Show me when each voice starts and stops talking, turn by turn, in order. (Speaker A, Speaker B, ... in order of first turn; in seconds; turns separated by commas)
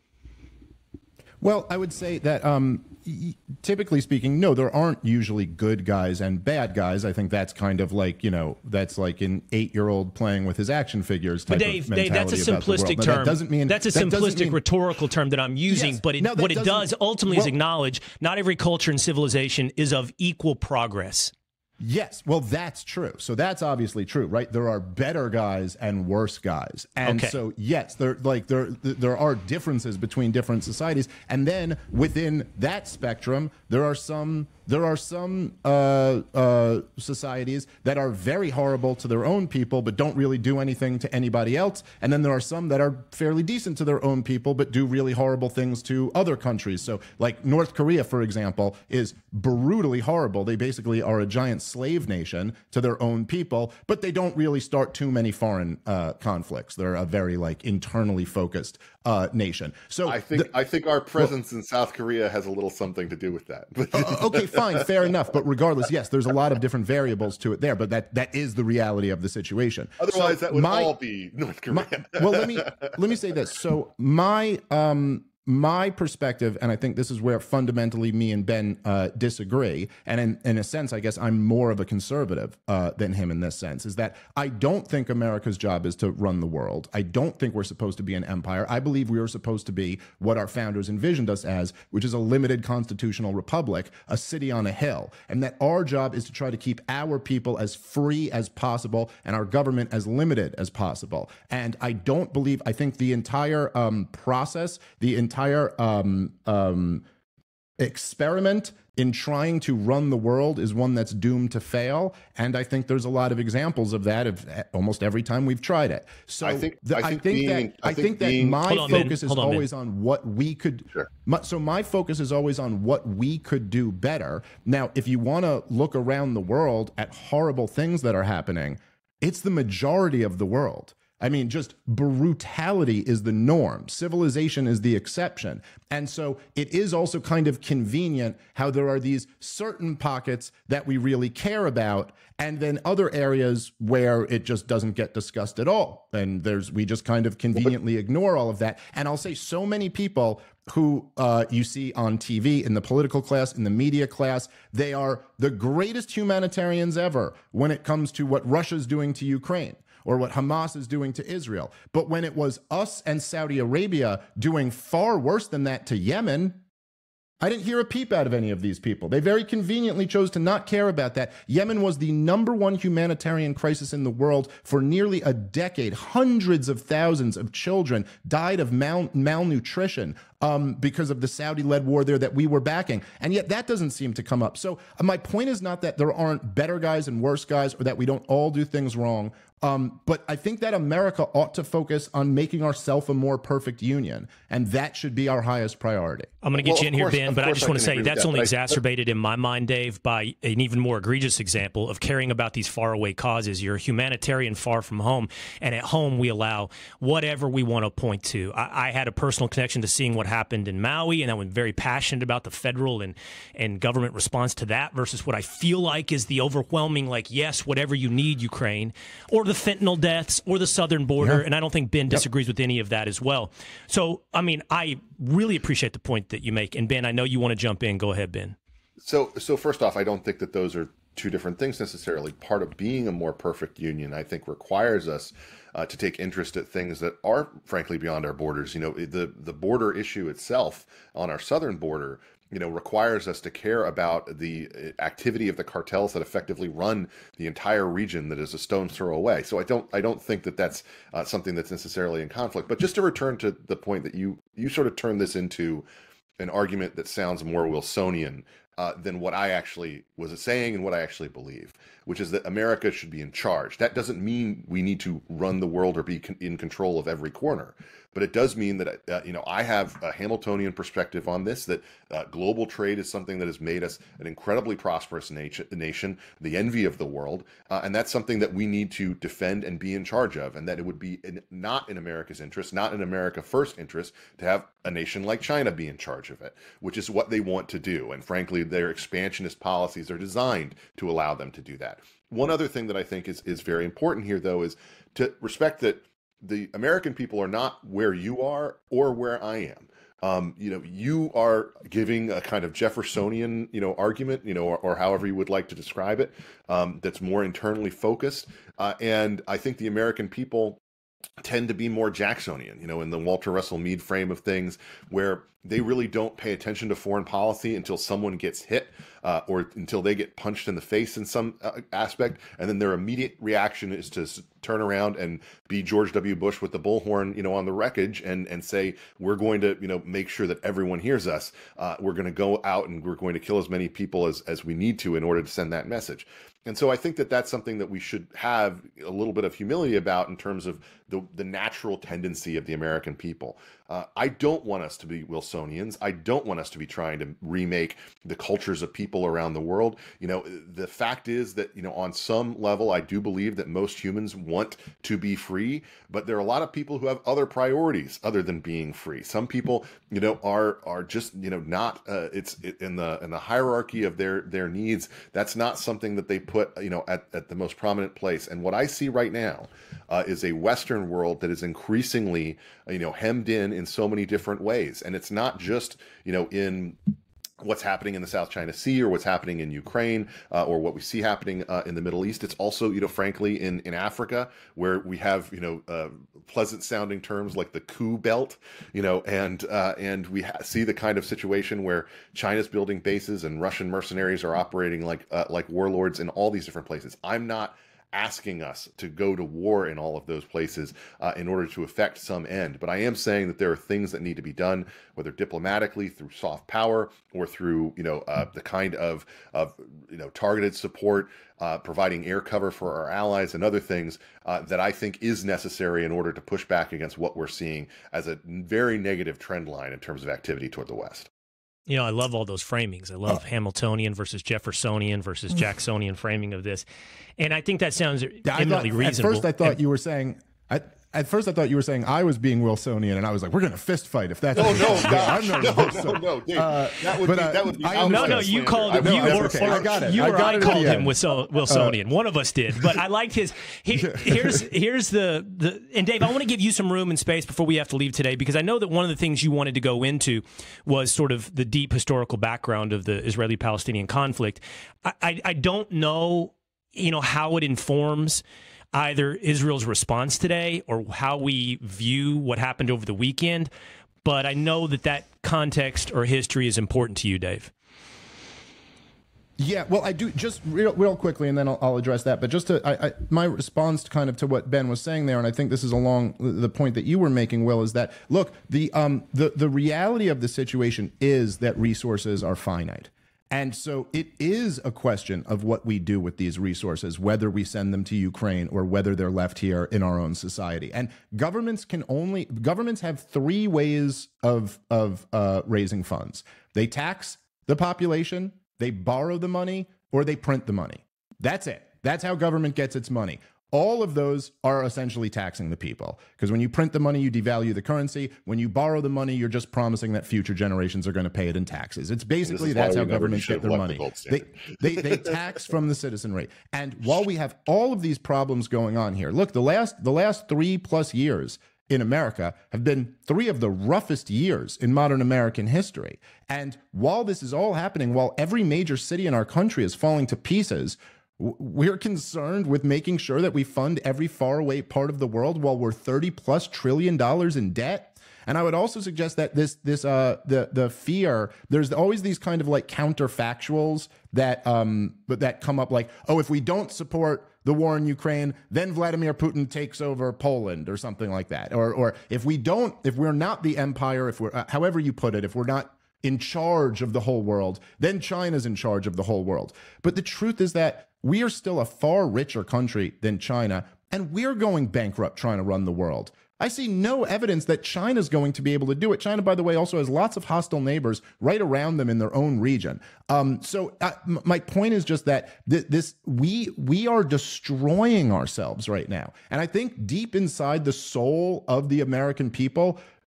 Speaker A: 1.4-14.6, Speaker B: 11.5-21.3, Speaker A: 15.7-17.5, Speaker A: 21.8-60.5, Speaker B: 27.0-27.3, Speaker C: 60.0-64.9, Speaker A: 63.9-70.9, Speaker C: 70.0-73.0, Speaker A: 71.7-107.0, Speaker A: 107.8-166.6, Speaker C: 116.4-119.1, Speaker B: 118.7-119.7, Speaker A: 167.4-196.3, Speaker B: 196.4-228.6, Speaker C: 196.6-198.8, Speaker C: 229.0-255.8, Speaker C: 256.4-310.8, Speaker C: 311.4-377.0, Speaker C: 377.6-421.3, Speaker B: 421.9-426.8, Speaker B: 427.4-429.8, Speaker A: 428.4-441.1, Speaker C: 434.5-440.9, Speaker B: 437.9-458.4, Speaker A: 441.7-442.0, Speaker A: 444.0-444.6, Speaker B: 458.9-463.7, Speaker B: 464.2-467.7, Speaker A: 469.6-583.0, Speaker C: 512.4-515.1